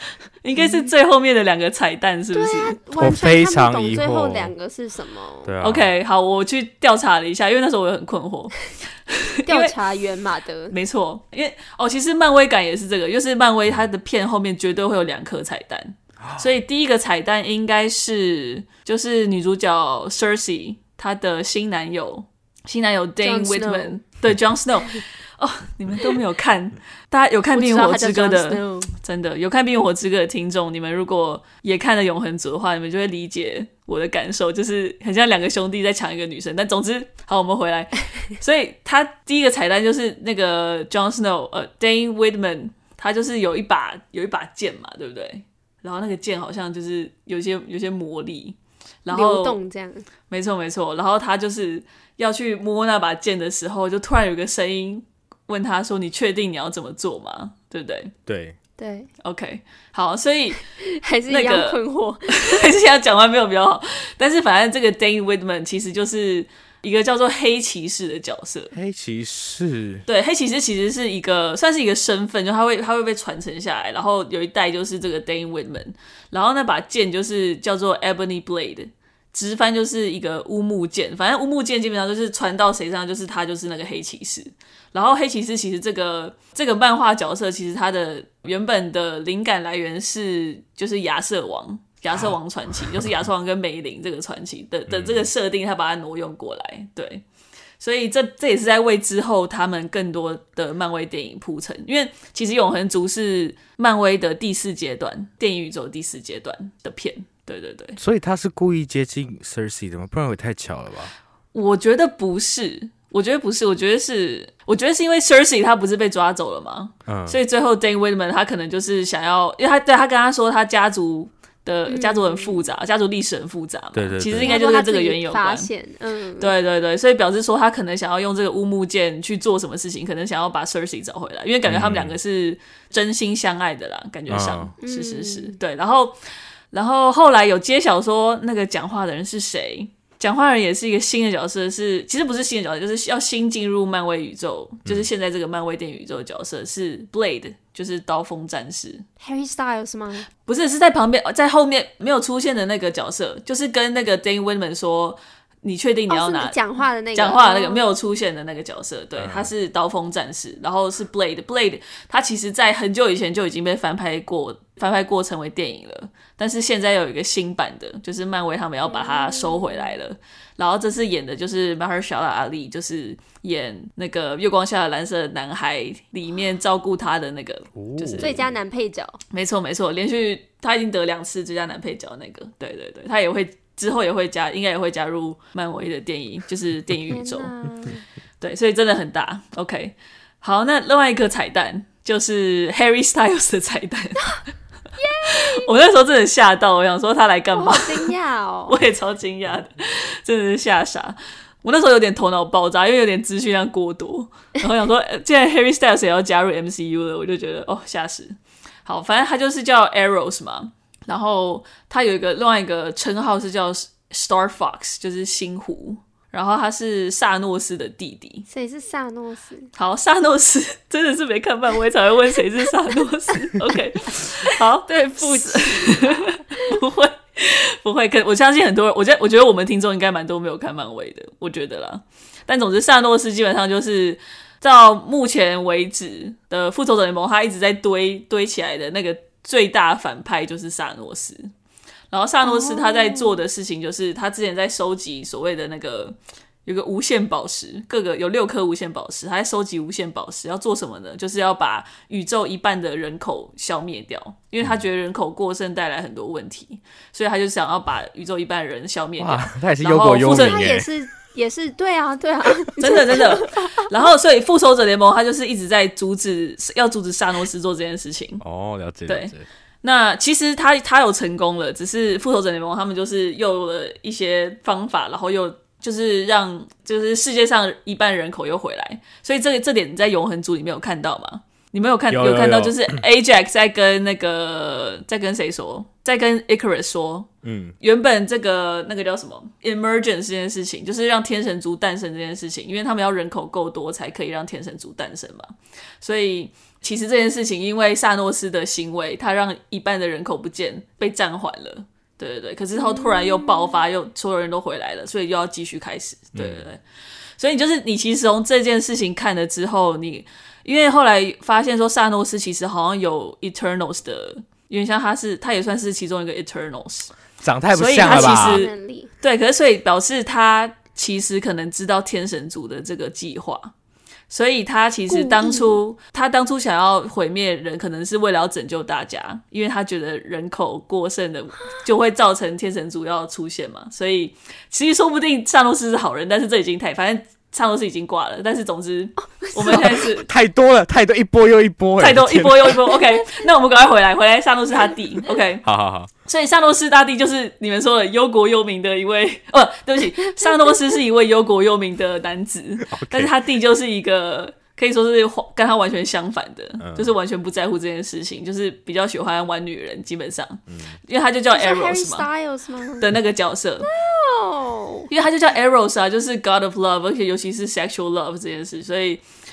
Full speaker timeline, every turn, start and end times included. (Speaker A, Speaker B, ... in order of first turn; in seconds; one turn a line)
Speaker A: 0.4-2.8
Speaker B: 0.6-0.9
Speaker B: 2.3-5.5
Speaker C: 3.0-4.5
Speaker C: 5.5-5.9
Speaker A: 5.6-9.8
Speaker B: 9.4-10.7
Speaker A: 10.7-49.6
Speaker B: 23.2-24.0
Speaker B: 27.5-28.9
Speaker B: 49.1-50.1
Speaker A: 50.3-58.1
Speaker C: 58.3-58.6
Speaker B: 58.8-59.1
Speaker A: 59.2-60.6
Speaker B: 60.8-62.7
Speaker A: 61.3-68.7
Speaker C: 68.7-70.0
Speaker A: 70.1-97.2
Speaker C: 94.9-95.3
Speaker A: 97.8-108.0
Speaker C: 108.0-111.1
Speaker A: 111.5-125.7
Speaker C: 117.1-117.4
Speaker B: 121.9-122.7
Speaker C: 123.9-124.6
Speaker B: 124.4-126.5
Speaker A: 126.4-136.2
Speaker C: 131.7-132.2
Speaker C: 134.3-134.7
Speaker B: 134.8-135.6
Speaker A: 136.7-149.1
Speaker B: 149.2-150.3
Speaker A: 150.5-156.6
Speaker B: 156.1-157.9
Speaker A: 157.1-178.4
Speaker C: 159.2-159.5
Speaker B: 168.9-169.9
Speaker C: 177.8-178.5
Speaker B: 178.2-179.2
Speaker A: 179.3-187.5
Speaker B: 187.1-188.0
Speaker A: 188.4-194.4
Speaker B: 195.0-195.7
Speaker A: 195.2-198.1
Speaker B: 197.5-198.8
Speaker A: 198.7-218.5
Speaker B: 218.5-219.7
Speaker A: 219.8-241.5
Speaker B: 224.9-226.7
Speaker A: 242.1-260.7
Speaker B: 242.4-243.4
Speaker C: 259.2-260.9
Speaker B: 260.2-263.9
Speaker A: 262.8-268.4
Speaker C: 268.4-269.4
Speaker A: 269.1-287.3
Speaker C: 282.1-283.0
Speaker C: 287.4-287.7
Speaker A: 287.8-295.5
Speaker A: 296.0-306.8
Speaker B: 302.8-303.8
Speaker C: 306.4-306.7
Speaker A: 307.4-317.1
Speaker C: 317.4-318.7
Speaker A: 317.7-323.7
Speaker B: 318.0-319.1
Speaker A: 324.3-340.3
Speaker B: 325.1-325.8
Speaker B: 339.3-340.0
Speaker C: 339.6-343.0
Speaker A: 342.0-345.7
Speaker B: 343.2-343.4
Speaker C: 345.6-346.1
Speaker A: 346.3-362.3
Speaker C: 352.9-353.3
Speaker C: 356.8-357.1
Speaker C: 360.7-361.0
Speaker B: 361.5-363.1
Speaker A: 363.0-363.9
Speaker B: 363.8-365.1
Speaker A: 365.1-369.2